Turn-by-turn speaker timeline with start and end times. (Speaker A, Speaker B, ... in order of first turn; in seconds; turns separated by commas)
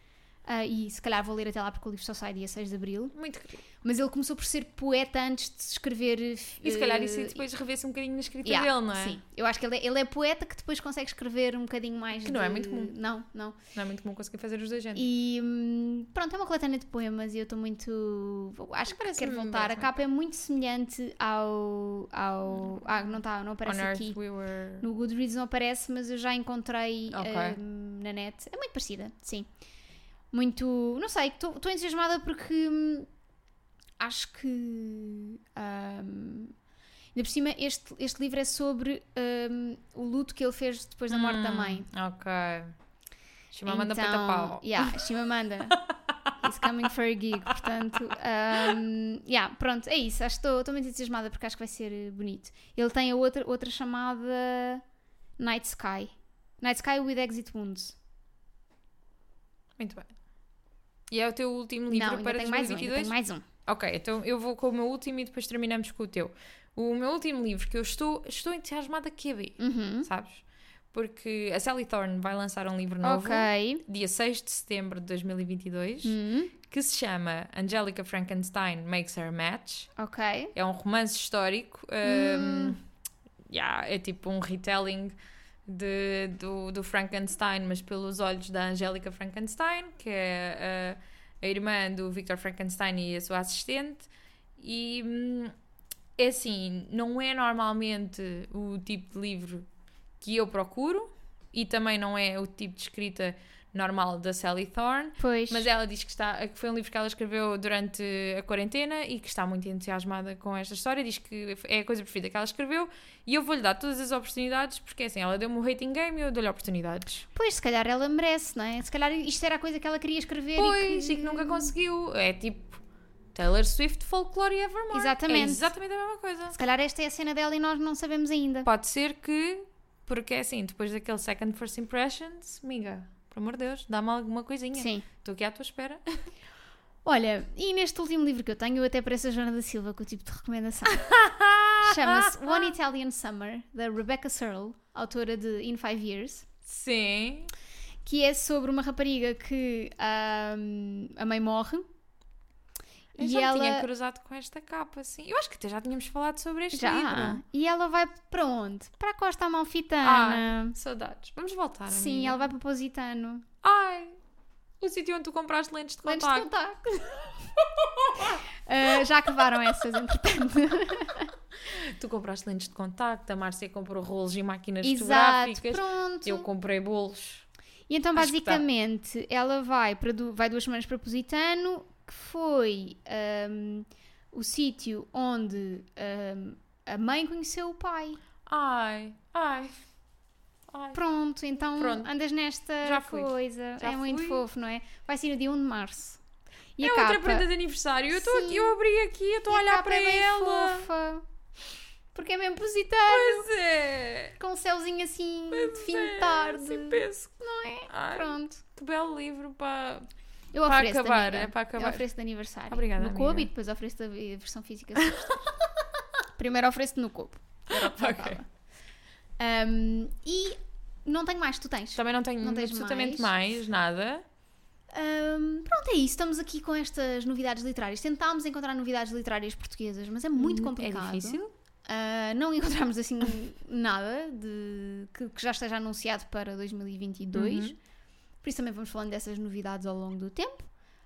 Speaker A: 0.5-3.1, Speaker B: 3.1-3.6, Speaker A: 3.8-7.5, Speaker B: 6.6-9.2, Speaker A: 8.4-13.6, Speaker B: 12.2-12.9, Speaker B: 13.8-15.1, Speaker A: 14.9-24.2, Speaker B: 18.9-20.0, Speaker B: 22.5-23.0, Speaker B: 23.6-24.9, Speaker A: 24.8-29.5, Speaker B: 27.1-27.6, Speaker A: 30.3-33.1, Speaker A: 34.0-36.5, Speaker A: 37.1-41.9, Speaker B: 41.1-42.8, Speaker B: 43.5-45.0, Speaker A: 43.7-45.8, Speaker B: 45.8-46.3, Speaker A: 46.4-54.8, Speaker A: 55.4-58.0, Speaker B: 59.8-60.1, Speaker B: 61.1-63.1, Speaker A: 61.9-63.5, Speaker B: 63.7-70.4, Speaker A: 69.6-70.1, Speaker B: 70.9-79.9, Speaker A: 73.0-73.8, Speaker A: 76.0-76.5, Speaker A: 80.0-80.5, Speaker B: 80.5-82.8, Speaker A: 82.0-82.8, Speaker B: 83.5-85.2, Speaker B: 85.7-95.5, Speaker B: 96.2-99.7, Speaker B: 100.2-117.2, Speaker A: 105.2-105.7, Speaker A: 117.3-121.7, Speaker B: 120.6-122.8, Speaker B: 123.3-126.5, Speaker A: 124.9-125.7, Speaker A: 126.5-128.7, Speaker B: 128.7-136.2, Speaker A: 134.8-135.1, Speaker A: 137.1-141.2, Speaker B: 140.9-142.7, Speaker A: 141.8-146.5, Speaker B: 146.7-147.5, Speaker A: 148.1-151.9, Speaker B: 153.2-157.4, Speaker A: 153.2-153.9, Speaker A: 156.7-160.8, Speaker B: 160.0-162.4, Speaker A: 161.9-163.5, Speaker B: 163.6-164.2, Speaker B: 164.8-166.5, Speaker A: 166.1-167.4, Speaker B: 167.6-168.4, Speaker A: 168.2-171.3, Speaker B: 171.7-177.5, Speaker A: 174.8-176.5, Speaker A: 177.9-188.2, Speaker B: 178.2-178.7, Speaker B: 188.5-189.7, Speaker B: 190.7-191.0, Speaker A: 190.9-196.2, Speaker B: 191.8-192.1, Speaker B: 192.8-194.4, Speaker A: 196.8-197.5, Speaker B: 196.8-200.9, Speaker A: 198.1-198.8, Speaker A: 199.5-201.2, Speaker A: 202.1-203.5, Speaker B: 203.1-204.4, Speaker A: 204.4-208.6, Speaker B: 205.5-207.3, Speaker B: 207.9-210.1, Speaker A: 210.5-215.6, Speaker B: 210.6-212.0, Speaker B: 212.7-213.5, Speaker A: 216.3-218.5, Speaker B: 217.7-218.4, Speaker A: 219.4-223.3, Speaker B: 221.9-224.2, Speaker A: 224.9-237.8, Speaker B: 230.4-231.5, Speaker B: 237.3-237.8, Speaker A: 238.4-240.7